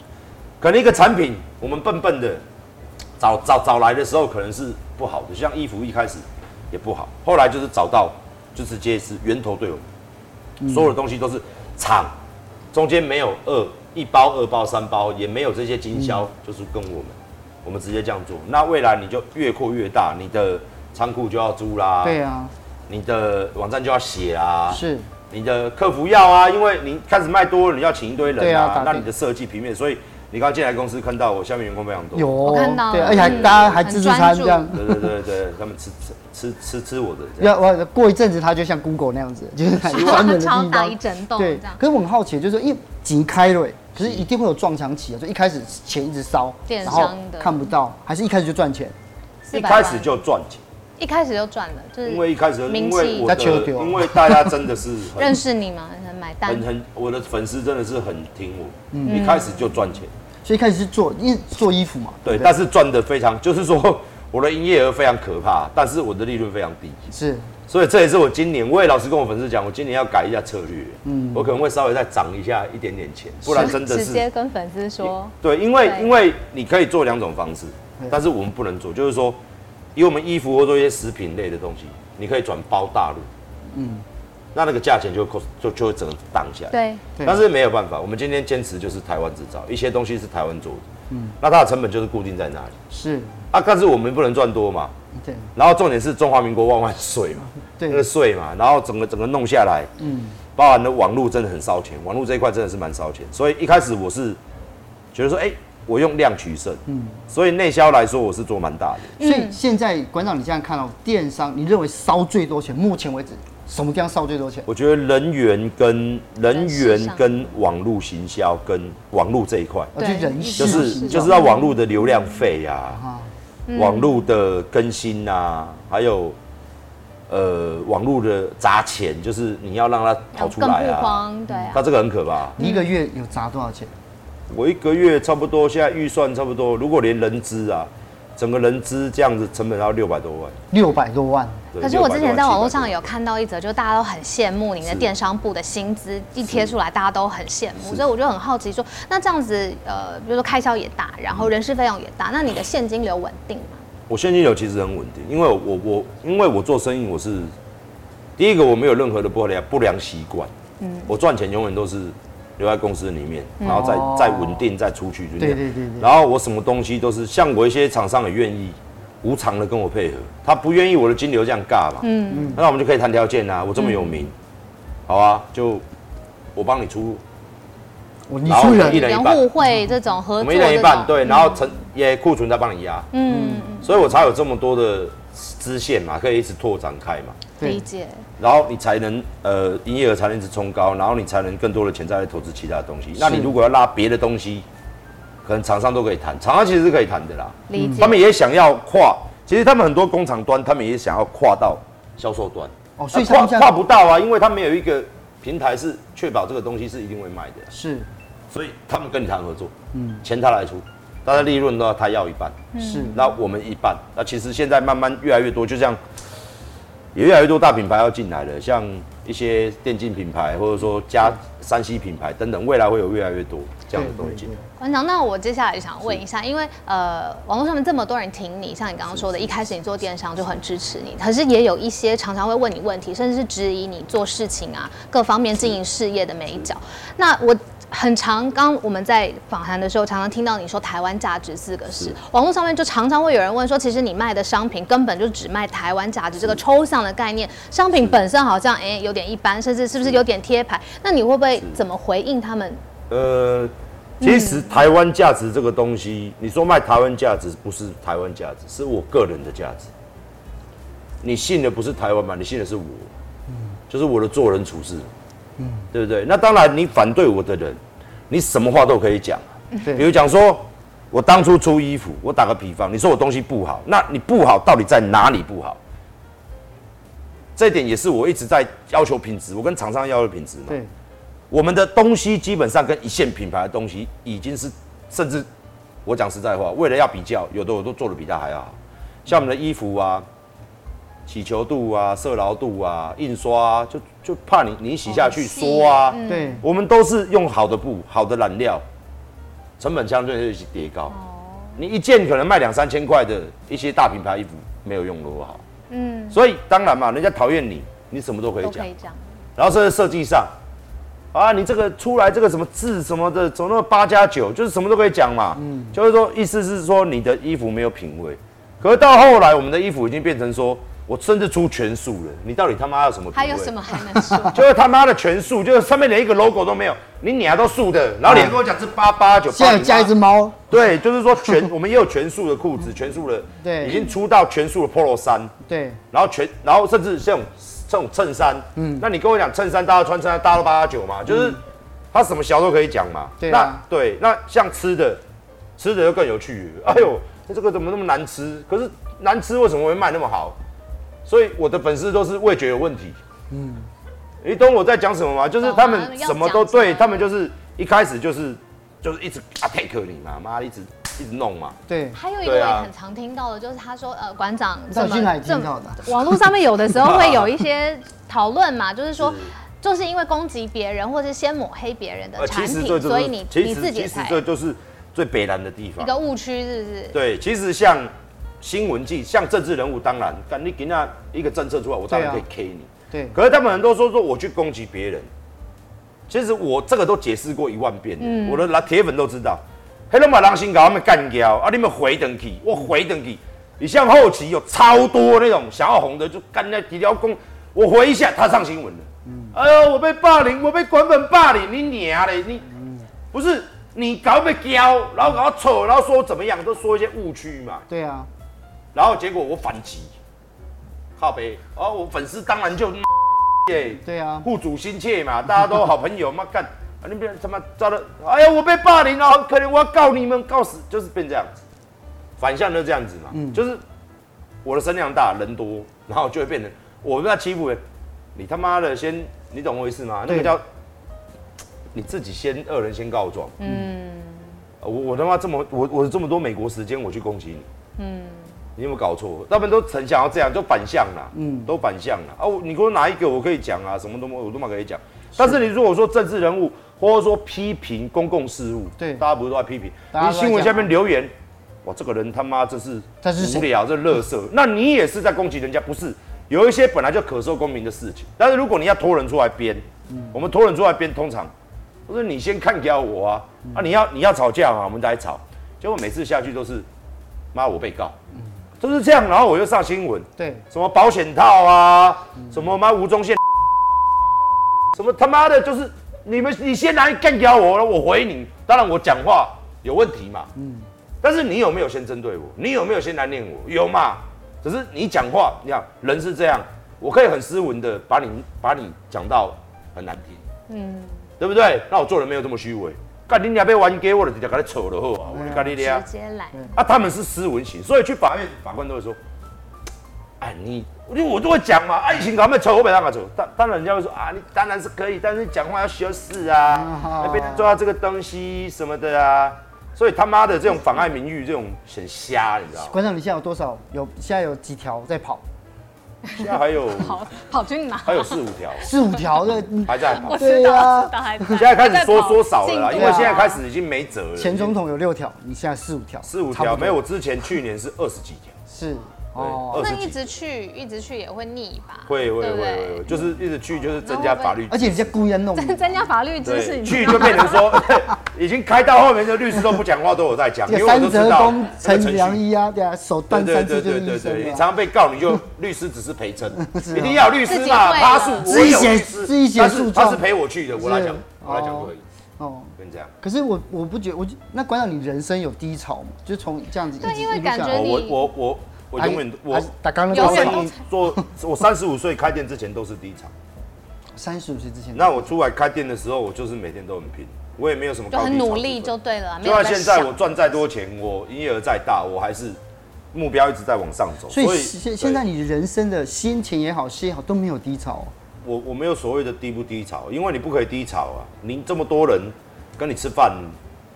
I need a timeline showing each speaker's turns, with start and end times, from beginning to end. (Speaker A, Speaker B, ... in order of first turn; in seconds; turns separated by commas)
Speaker A: 0.6-2.4, Speaker A: 3.2-9.9, Speaker B: 10.6-10.9, Speaker A: 10.7-12.2, Speaker A: 12.7-22.2, Speaker B: 15.9-16.2, Speaker B: 22.0-22.5, Speaker A: 22.9-32.4, Speaker B: 24.7-25.1, Speaker B: 28.4-29.1, Speaker B: 32.1-35.1, Speaker C: 32.4-34.7, Speaker A: 33.0-33.8, Speaker A: 34.7-37.5, Speaker B: 37.4-49.0, Speaker A: 39.9-40.4, Speaker C: 39.9-41.8, Speaker A: 44.0-44.3, Speaker C: 46.7-47.7, Speaker A: 46.9-47.1, Speaker C: 49.5-50.2, Speaker A: 49.5-50.6, Speaker C: 51.0-53.3, Speaker A: 52.0-55.4, Speaker B: 53.2-54.6, Speaker C: 55.2-56.7, Speaker A: 56.5-60.1, Speaker B: 58.9-59.2, Speaker C: 59.0-59.6, Speaker B: 60.4-62.5, Speaker A: 62.2-67.1, Speaker B: 67.1-67.5, Speaker A: 67.7-74.3, Speaker B: 71.0-71.5, Speaker C: 73.5-76.1, Speaker A: 75.1-79.4, Speaker A: 80.0-83.3, Speaker B: 83.7-84.0, Speaker A: 84.5-90.9, Speaker C: 86.7-87.0, Speaker A: 91.4-92.8, Speaker B: 92.9-93.4, Speaker A: 93.5-94.9, Speaker B: 95.2-95.5, Speaker A: 95.5-99.9, Speaker B: 97.8-98.0, Speaker B: 100.0-100.4, Speaker A: 100.6-104.4, Speaker A: 105.1-109.2, Speaker B: 106.9-107.2, Speaker C: 109.2-109.6, Speaker B: 109.2-114.7, Speaker A: 114.7-119.9, Speaker C: 116.5-117.2, Speaker B: 120.0-121.4, Speaker C: 120.0-122.1, Speaker A: 120.6-123.0, Speaker B: 122.9-123.3, Speaker C: 123.7-124.3, Speaker A: 123.7-126.4, Speaker A: 127.3-132.6, Speaker C: 130.3-131.8, Speaker B: 131.5-131.7, Speaker B: 132.6-133.9, Speaker C: 132.6-132.9, Speaker A: 134.5-140.6, Speaker B: 140.7-141.7, Speaker A: 141.7-143.1, Speaker C: 141.8-153.8, Speaker A: 144.8-145.1, Speaker A: 146.5-146.7, Speaker A: 154.1-157.5, Speaker A: 158.4-160.5, Speaker C: 160.8-161.1, Speaker A: 161.1-174.3, Speaker C: 163.6-163.9, Speaker B: 163.7-164.6, Speaker B: 165.4-166.1, Speaker C: 172.0-172.6, Speaker B: 172.3-172.6, Speaker C: 173.8-174.2, Speaker A: 175.1-175.8, Speaker A: 176.6-177.2, Speaker B: 178.3-179.1, Speaker A: 178.5-179.5, Speaker C: 178.6-181.7, Speaker A: 180.4-183.1, Speaker C: 183.1-184.0, Speaker B: 183.3-183.7, Speaker A: 183.8-187.4, Speaker C: 187.6-188.2, Speaker A: 188.4-194.7, Speaker B: 193.2-193.6, Speaker A: 195.4-207.7, Speaker C: 197.7-198.2, Speaker B: 197.8-198.1, Speaker B: 203.0-203.8, Speaker B: 207.7-208.1, Speaker A: 208.5-216.0, Speaker B: 209.9-210.2, Speaker C: 212.7-213.3, Speaker B: 212.8-213.2, Speaker A: 217.1-224.5, Speaker B: 223.9-224.7, Speaker C: 224.8-252.8, Speaker A: 229.1-229.5, Speaker A: 253.1-259.9, Speaker C: 254.2-254.8, Speaker A: 261.2-263.1, Speaker A: 263.9-265.1, Speaker B: 265.6-265.9, Speaker A: 265.9-275.8, Speaker B: 269.8-270.1, Speaker A: 277.6-280.8, Speaker A: 281.5-285.5, Speaker A: 286.1-290.3, Speaker A: 291.3-298.9, Speaker C: 295.1-296.6, Speaker B: 296.3-296.6, Speaker A: 299.8-301.1, Speaker C: 301.1-301.8, Speaker A: 301.8-305.6, Speaker C: 305.9-306.4, Speaker A: 306.3-308.9, Speaker C: 308.6-309.4, Speaker A: 309.6-310.5, Speaker A: 311.3-323.7, Speaker B: 315.6-315.9, Speaker C: 323.3-324.6, Speaker A: 324.5-330.1, Speaker B: 328.2-328.6, Speaker B: 329.5-330.6, Speaker A: 330.7-335.5, Speaker B: 333.6-334.0, Speaker B: 335.7-336.0, Speaker A: 336.1-345.2, Speaker B: 338.8-339.1, Speaker B: 341.3-341.6, Speaker B: 343.4-343.8, Speaker A: 345.8-350.6, Speaker A: 351.2-353.2, Speaker B: 353.5-353.9, Speaker A: 354.4-361.8, Speaker C: 355.6-357.3, Speaker B: 361.9-362.2, Speaker C: 362.1-374.4, Speaker A: 362.4-362.9, Speaker B: 364.9-366.2, Speaker A: 367.0-367.5, Speaker A: 369.2-369.5, Speaker A: 372.4-376.1, Speaker C: 376.0-377.2, Speaker A: 377.1-385.3, Speaker B: 382.1-382.4, Speaker B: 383.1-383.4, Speaker A: 386.3-402.7, Speaker C: 388.2-388.7, Speaker B: 399.2-399.6, Speaker B: 402.7-403.1, Speaker A: 403.3-407.9, Speaker B: 407.9-408.3, Speaker A: 408.9-410.1, Speaker A: 411.2-421.6, Speaker B: 414.0-414.5, Speaker A: 422.4-423.8, Speaker B: 423.3-423.6, Speaker A: 424.6-427.8, Speaker A: 428.4-430.6, Speaker B: 430.3-430.5, Speaker A: 431.9-433.6, Speaker C: 433.6-434.6, Speaker A: 434.8-437.7, Speaker C: 438.0-438.5, Speaker A: 438.8-451.3, Speaker B: 441.3-441.7, Speaker B: 449.0-449.2, Speaker B: 450.1-450.9, Speaker A: 451.8-461.5, Speaker B: 453.2-453.7, Speaker B: 460.1-460.4, Speaker A: 462.1-466.9, Speaker A: 467.5-468.2, Speaker A: 468.8-473.4, Speaker B: 470.4-470.6, Speaker A: 474.9-480.5, Speaker B: 480.6-480.9, Speaker A: 481.2-490.4, Speaker C: 490.7-491.2, Speaker A: 491.4-496.1, Speaker B: 495.3-495.7, Speaker C: 495.5-496.6, Speaker A: 496.8-499.2, Speaker A: 500.4-513.0, Speaker B: 506.7-507.7, Speaker B: 512.8-515.4, Speaker C: 516.2-518.4, Speaker A: 516.3-517.2, Speaker A: 518.0-518.9, Speaker B: 518.8-521.5, Speaker A: 519.9-520.4, Speaker C: 519.9-523.6, Speaker A: 521.5-524.8, Speaker B: 522.9-523.4, Speaker B: 524.4-527.0, Speaker A: 526.2-528.6, Speaker B: 528.7-529.8, Speaker A: 529.4-530.2, Speaker C: 529.7-533.3, Speaker A: 532.1-535.2, Speaker C: 534.0-534.6, Speaker B: 534.7-536.1, Speaker C: 535.5-538.0, Speaker A: 536.4-542.4, Speaker B: 540.7-544.6, Speaker A: 543.3-552.0, Speaker B: 546.6-547.2, Speaker C: 547.4-548.7, Speaker B: 548.4-550.2, Speaker B: 550.8-557.9, Speaker A: 552.8-553.1, Speaker C: 557.0-558.3, Speaker A: 557.7-563.3, Speaker B: 559.0-561.3, Speaker C: 560.1-560.8, Speaker B: 564.2-565.3, Speaker A: 564.9-572.6, Speaker C: 568.1-570.2, Speaker A: 573.1-575.2, Speaker B: 574.3-578.1, Speaker A: 578.4-583.6